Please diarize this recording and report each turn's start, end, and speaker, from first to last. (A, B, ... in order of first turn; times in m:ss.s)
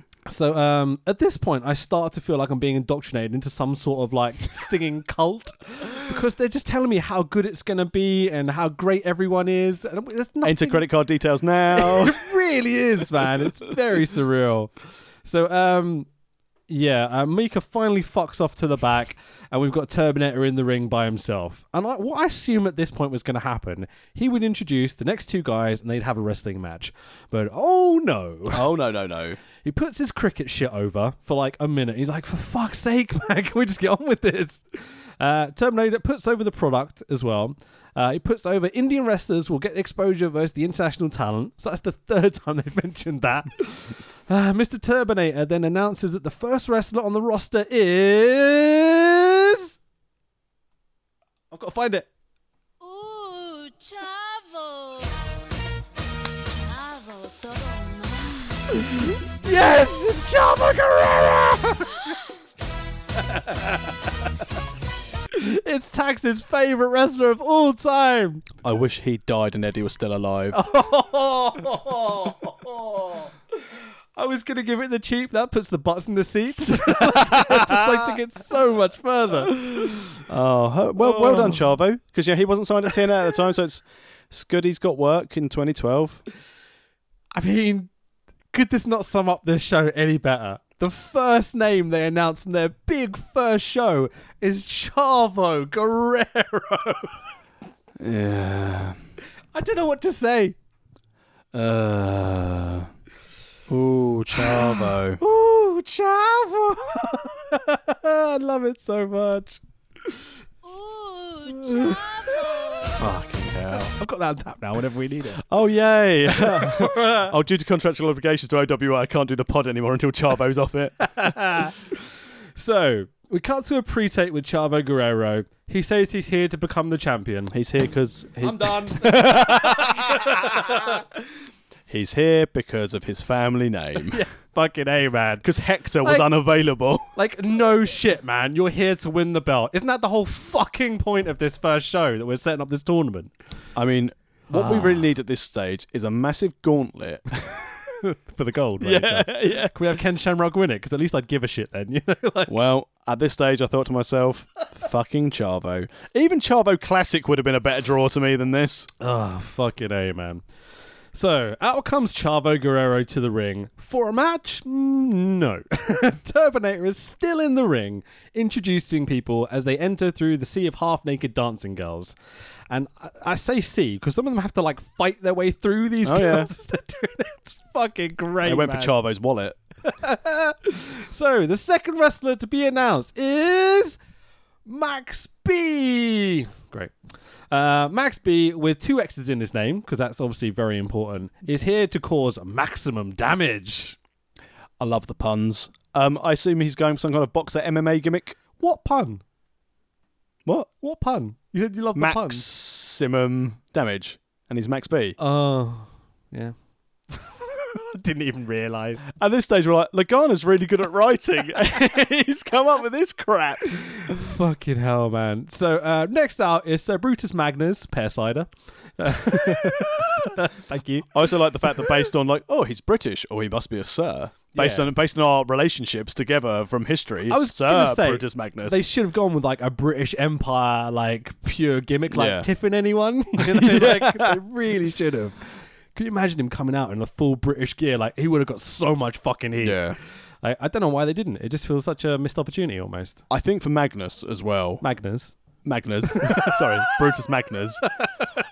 0:00.3-0:10.8 A
0:10.4-0:12.2 B
0:11.7-0:14.7 A
0:15.2-0:16.1 A
0:16.7-0:28.7 A
0:28.5-0:29.4 B
0:29.6-0:49.8 A
0:51.5-0:52.1 A
0:52.8-0:55.5 C
0:56.4-0:58.8 C
0:58.9-1:02.0 A
1:03.2-1:03.9 A
1:05.3-1:08.4 A
1:08.6-1:10.6 B
1:10.5-1:19.9 A
1:17.0-1:17.9 B
1:19.5-1:26.2 B
1:21.0-1:21.8 A
1:27.3-1:27.9 A
1:28.5-1:37.2 A
1:38.0-1:39.0 B
1:39.5-1:40.6 A
1:41.5-1:42.9 B
1:43.7-1:45.2 B
1:44.4-1:49.6 A
1:50.6-1:53.0 C
1:51.6-1:51.9 A
1:53.0-1:53.9 B
1:53.0-1:55.4 A
1:55.4-2:01.1 B
1:56.3-1:57.3 A
2:01.0-2:07.5 A
2:07.5-2:11.0 B
2:08.4-2:11.0 A
2:11.9-2:14.2 B
2:14.1-2:15.4 A
2:15.4-2:17.1 B
2:16.0-2:16.3 A
2:17.2-2:23.3 A
2:23.7-2:27.7 B
2:24.5-2:25.0 A
2:28.0-2:32.6 A
2:28.8-2:29.8 B
2:32.5-2:38.9 B
2:39.0-2:40.4 A
2:41.1-2:52.1 A
2:52.7-2:58.9 A
2:56.0-2:56.5 B
2:58.4-2:59.6 B
2:59.8-3:04.0 A
3:04.6-3:06.9 A
3:07.5-3:14.0 A
3:14.8-3:18.4 B
3:18.6-3:19.2 A
3:20.8-3:22.4 A
3:22.0-3:25.2 B
3:25.2-3:26.5 A
3:27.1-3:29.1 A
3:29.2-3:34.2 B
3:34.0-3:41.1 A
3:41.1-3:48.8 B
3:44.5-3:44.9 A
3:47.3-4:03.2 A
3:52.1-3:52.5 B
3:53.5-3:54.4 B
3:59.6-4:00.0 B
4:03.3-4:04.8 B
4:04.8-4:05.4 A
4:05.6-4:07.8 B
4:06.1-4:07.0 A
4:08.0-4:08.2 A